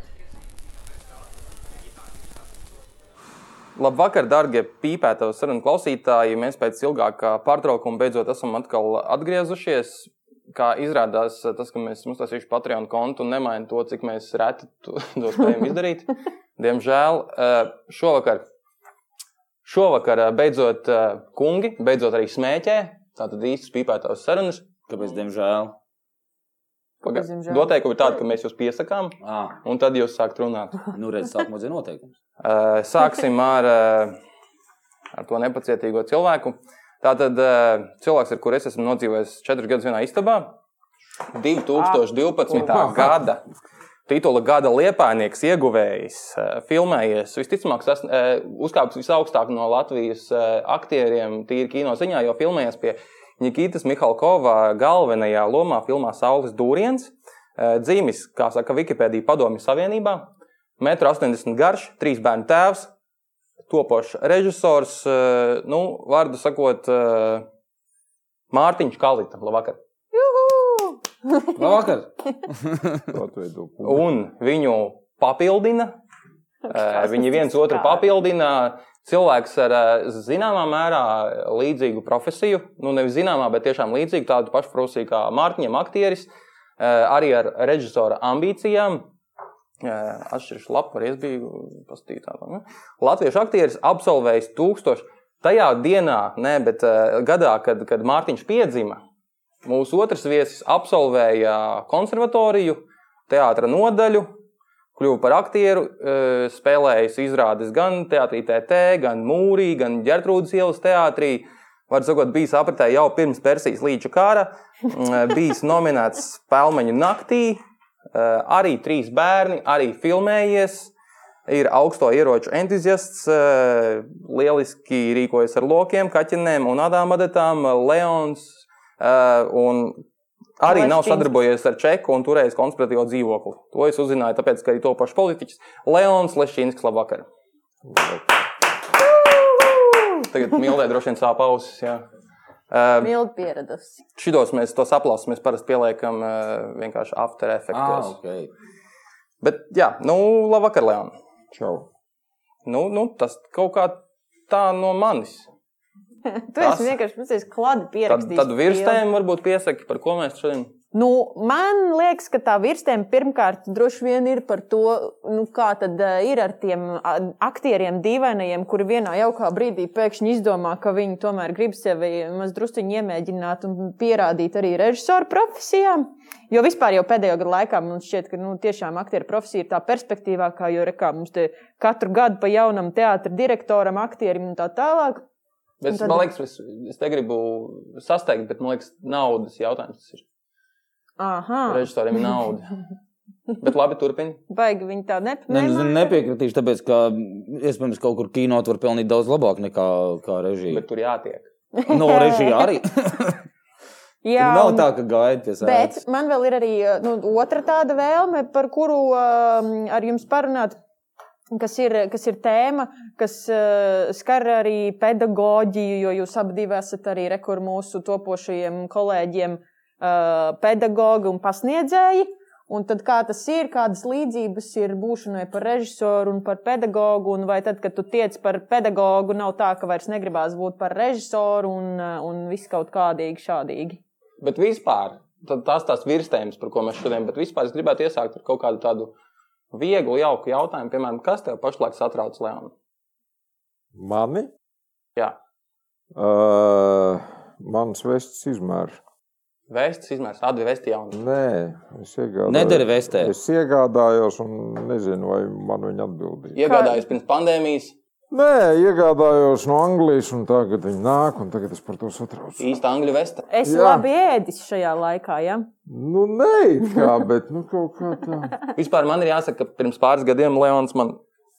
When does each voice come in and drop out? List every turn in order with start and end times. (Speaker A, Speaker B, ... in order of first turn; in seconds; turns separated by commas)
Speaker A: 3.8-18.4, Speaker A: 19.6-24.6, Speaker B: 24.9-25.8, Speaker A: 27.0-30.8, Speaker C: 27.0-27.8, Speaker B: 29.2-29.6, Speaker B: 30.9-32.1, Speaker A: 32.4-34.1, Speaker A: 35.1-40.5, Speaker A: 41.3-43.4, Speaker C: 41.8-42.9, Speaker D: 42.5-43.3, Speaker A: 44.1-62.9, Speaker A: 63.7-67.5, Speaker A: 68.5-69.8, Speaker C: 70.1-71.9, Speaker B: 71.5-73.1, Speaker D: 73.1-74.0, Speaker A: 73.8-75.9, Speaker C: 76.7-78.1, Speaker A: 76.7-89.1, Speaker A: 89.8-99.0, Speaker A: 99.6-104.3, Speaker A: 105.0-117.6, Speaker A: 118.1-120.9, Speaker A: 121.5-130.0, Speaker A: 130.6-137.3, Speaker C: 130.7-131.3, Speaker D: 137.8-138.2, Speaker C: 139.0-140.2, Speaker A: 140.2-142.0, Speaker A: 142.7-143.1, Speaker C: 143.0-144.0, Speaker A: 144.2-148.1, Speaker B: 147.7-148.5, Speaker A: 149.4-151.1, Speaker D: 151.5-151.9, Speaker A: 152.6-155.5, Speaker C: 156.2-159.0, Speaker A: 156.6-157.0, Speaker A: 158.1-160.7, Speaker C: 160.9-185.2, Speaker A: 185.8-190.2, Speaker C: 185.9-186.2, Speaker C: 191.2-191.9, Speaker A: 191.7-192.7, Speaker A: 193.6-194.4, Speaker C: 194.5-196.2, Speaker B: 195.5-200.8, Speaker A: 200.7-201.5, Speaker C: 201.7-202.6, Speaker B: 201.9-203.4, Speaker C: 204.2-204.9, Speaker B: 204.4-206.0, Speaker C: 205.6-210.8, Speaker C: 211.5-234.0, Speaker A: 234.4-239.1, Speaker A: 239.7-242.7, Speaker D: 243.9-244.5, Speaker D: 246.1-249.0, Speaker A: 249.7-251.2, Speaker D: 251.1-256.6, Speaker B: 252.5-253.3, Speaker A: 256.5-257.9, Speaker C: 256.6-257.0, Speaker D: 258.3-262.6, Speaker A: 262.6-263.4, Speaker C: 263.5-265.7, Speaker D: 263.6-264.0, Speaker D: 265.9-268.5, Speaker A: 268.7-271.2